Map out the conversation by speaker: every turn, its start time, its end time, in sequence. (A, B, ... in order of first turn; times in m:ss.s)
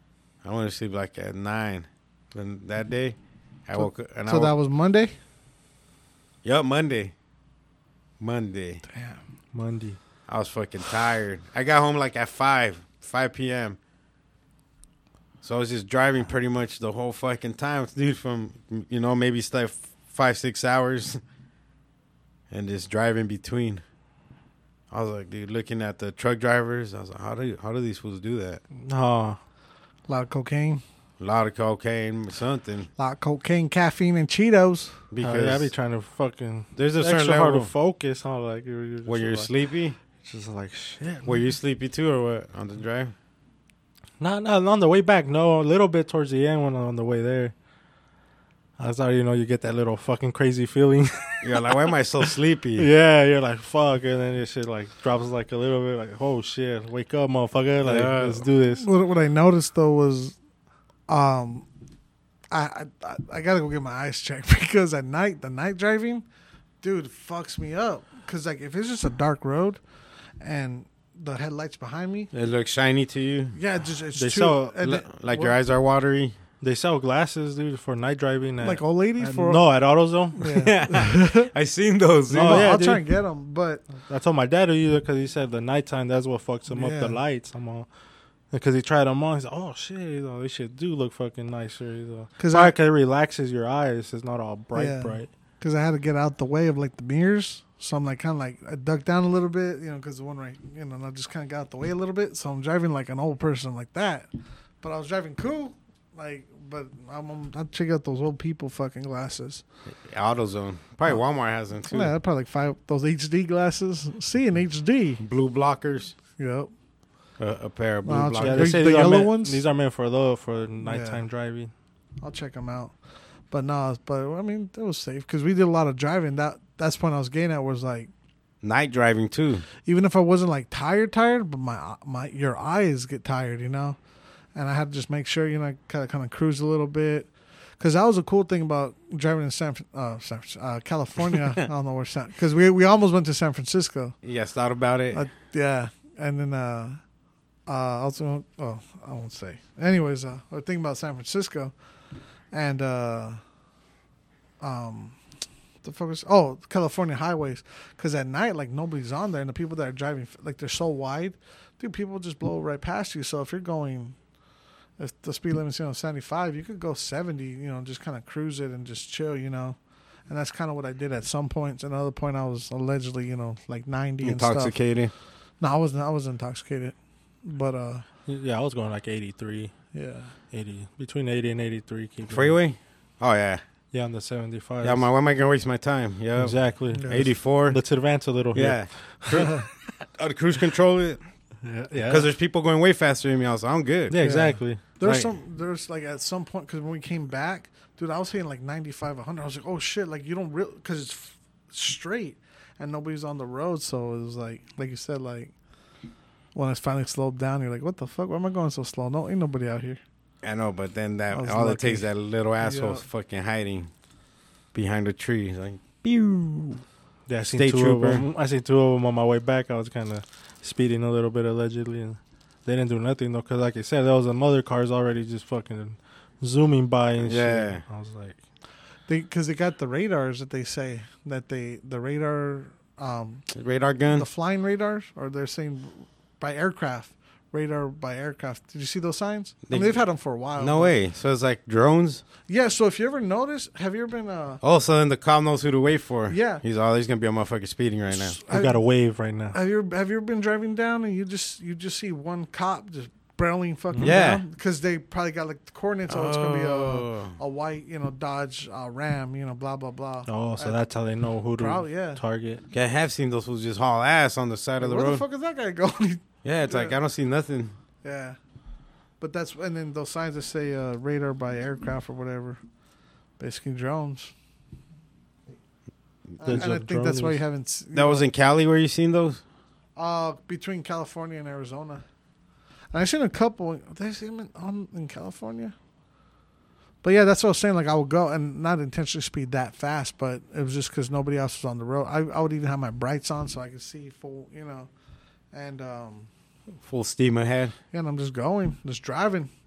0:00.4-0:04.5 A
0:03.8-0:05.2 B
0:06.4-0:07.1 A
0:08.2-0:08.8 A
0:08.9-0:09.2 B
0:09.5-0:10.0 C
0:10.3-0:13.8 A
0:15.4-0:21.2 A
0:22.5-0:23.8 A
0:24.9-0:28.6 A
0:28.8-0:29.4 C
0:30.1-0:30.8 B
0:31.2-0:32.9 A
0:33.0-0:35.0 B
0:35.1-0:35.7 A
0:35.2-0:39.5 C
0:36.8-0:37.7 A
0:39.0-0:40.0 A
0:40.2-0:41.4 C
0:41.2-0:43.1 A
0:44.2-0:47.5 C
0:48.8-0:58.9 C
0:51.4-0:52.9 A
0:57.8-0:58.5 A
0:58.7-1:00.4 B
1:01.1-1:01.7 B
1:02.5-1:06.2 B
1:06.8-1:09.8 B
1:10.4-1:12.3 B
1:12.3-1:13.6 A
1:13.6-1:15.6 B
1:14.2-1:14.8 C
1:14.8-1:16.4 A
1:16.6-1:20.4 C
1:18.6-1:19.6 B
1:20.4-1:21.5 B
1:20.4-1:22.7 A
1:22.3-1:23.0 C
1:22.3-1:23.9 B
1:24.0-1:27.9 C
1:26.7-1:27.2 B
1:28.5-1:35.3 C
1:32.4-1:32.7 B
1:34.8-1:44.3 B
1:44.8-1:49.6 B
1:50.0-1:52.1 A
1:51.9-1:55.2 B
1:55.2-1:56.2 A
1:56.4-1:56.7 B
1:57.4-1:58.8 A
1:58.0-1:59.6 B
1:58.4-2:01.7 C
2:00.8-2:01.2 B
2:02.2-2:02.9 B
2:03.5-2:08.1 B
2:08.6-2:09.7 A
2:09.8-2:14.0 B
2:14.6-2:24.2 B
2:24.2-2:25.3 A
2:25.1-2:27.0 B
2:27.7-2:31.7 B
2:32.5-2:33.4 B
2:34.6-2:35.2 B
2:35.8-2:44.2 B
2:45.0-2:49.8 B
2:50.3-2:54.8 B
2:54.2-2:55.1 A
2:55.6-2:58.0 B
2:58.3-2:59.7 C
2:59.9-3:00.4 B
3:00.5-3:02.6 C
3:02.3-3:03.6 A
3:03.9-3:05.1 C
3:04.8-3:07.8 A
3:06.4-3:09.6 C
3:06.9-3:07.2 B
3:08.5-3:11.2 A
3:11.6-3:12.3 C
3:12.0-3:14.2 A
3:14.1-3:14.8 C
3:14.2-3:25.5 B
3:15.0-3:15.3 A
3:26.6-3:30.0 B
3:30.4-3:33.9 A
3:31.3-3:32.1 B
3:32.6-3:33.0 B
3:34.7-3:36.8 A
3:37.3-3:48.4 C
3:37.4-3:38.3 A
3:47.2-3:47.8 A
3:49.1-3:53.5 B
3:53.5-3:54.3 A
3:54.1-4:00.9 B
3:59.7-4:00.0 A
4:00.6-4:02.2 A
4:02.5-4:04.6 B
4:04.6-4:08.4 A
4:06.3-4:06.6 B
4:08.1-4:08.8 B
4:08.5-4:09.6 C
4:09.5-4:20.8 B
4:13.9-4:14.2 C
4:14.0-4:14.4 A
4:16.1-4:17.4 A
4:20.3-4:22.6 C
4:21.6-4:22.2 B
4:22.7-4:25.2 A
4:24.8-4:27.0 B
4:26.4-4:27.8 A
4:28.0-4:28.4 B
4:29.2-4:32.6 B
4:33.4-4:34.3 B
4:36.4-4:38.2 B
4:36.5-4:37.4 C
4:37.9-4:39.4 A
4:40.0-4:42.0 B
4:42.9-4:45.7 B
4:47.0-4:54.9 B
4:55.5-4:56.3 B
4:56.8-4:57.8 A
4:57.9-4:59.5 B